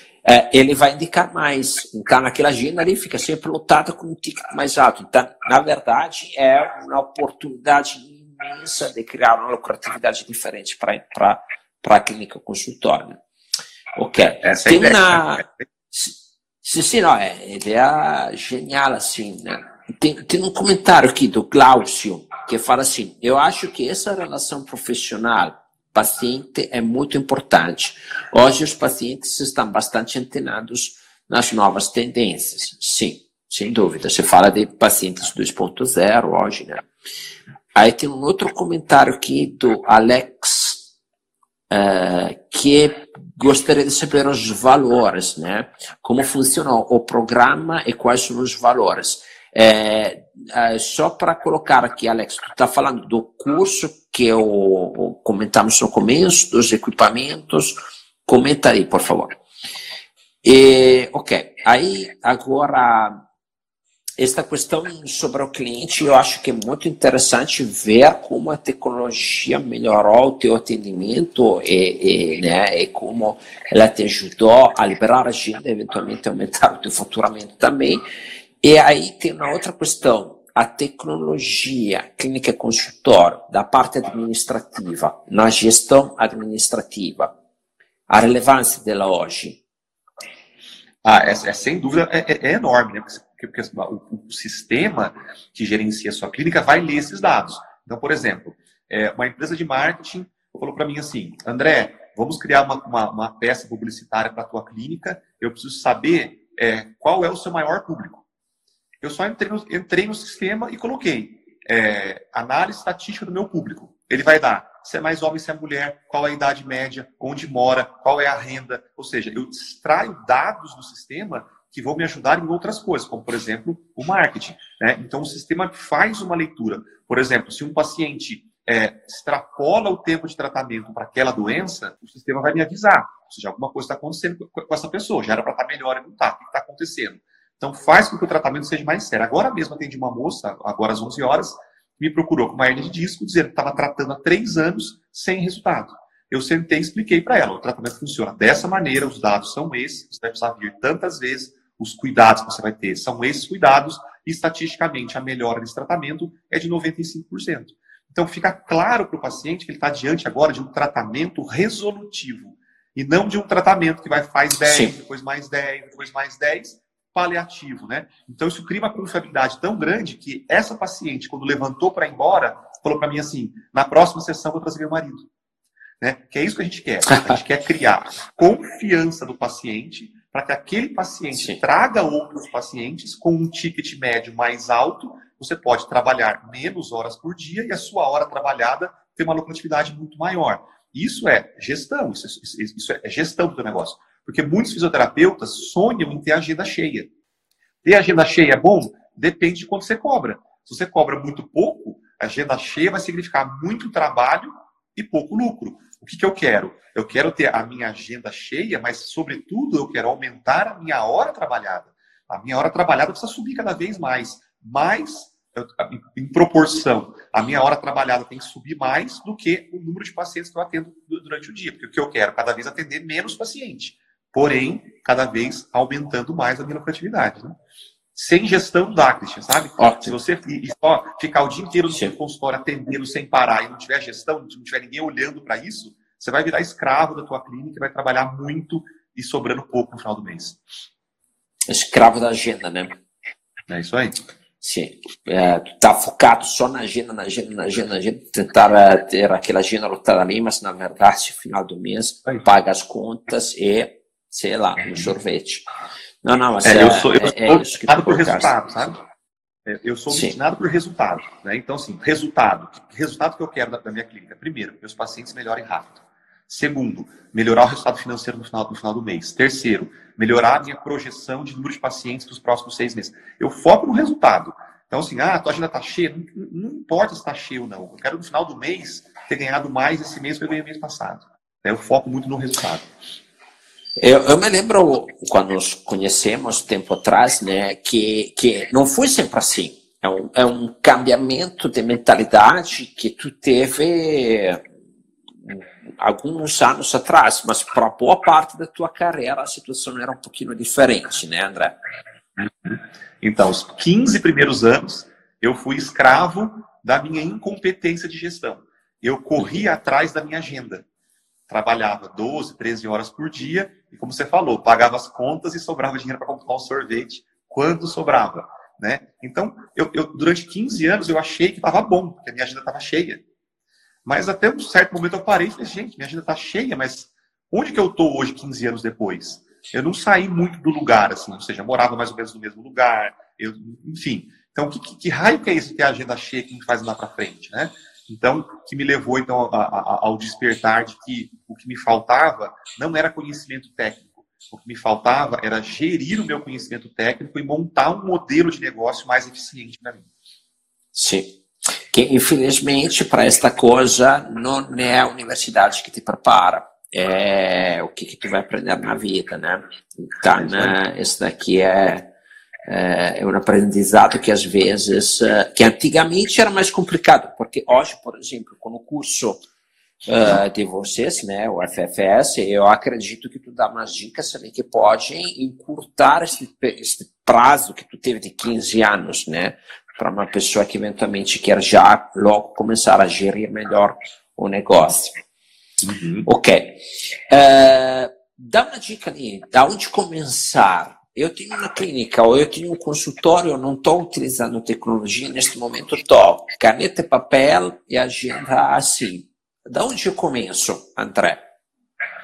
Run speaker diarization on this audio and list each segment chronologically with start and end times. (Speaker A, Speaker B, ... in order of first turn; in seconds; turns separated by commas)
Speaker A: 0.2-13.2, Speaker A: 14.0-36.9, Speaker B: 14.4-15.5, Speaker A: 37.7-40.9, Speaker A: 41.7-59.4, Speaker A: 60.4-63.3, Speaker A: 64.2-78.0, Speaker A: 78.6-87.3, Speaker A: 88.1-89.6, Speaker B: 91.0-108.2, Speaker B: 109.0-175.3, Speaker A: 164.6-165.0, Speaker B: 176.0-197.1, Speaker A: 177.1-177.4, Speaker A: 181.3-181.6, Speaker B: 197.8-227.6, Speaker B: 228.2-240.6, Speaker A: 229.8-230.2, Speaker A: 241.7-243.0, Speaker B: 243.7-244.2, Speaker A: 244.6-255.7, Speaker A: 256.2-258.6, Speaker B: 256.6-259.0, Speaker B: 259.7-282.9, Speaker A: 260.1-260.4, Speaker A: 284.0-294.7, Speaker A: 295.4-301.8, Speaker B: 302.4-310.9, Speaker B: 311.5-323.2, Speaker B: 324.1-350.1, Speaker A: 350.9-362.1, Speaker B: 360.4-360.8, Speaker A: 362.7-369.5, Speaker A: 370.1-385.1, Speaker B: 385.8-386.3, Speaker A: 386.2-401.5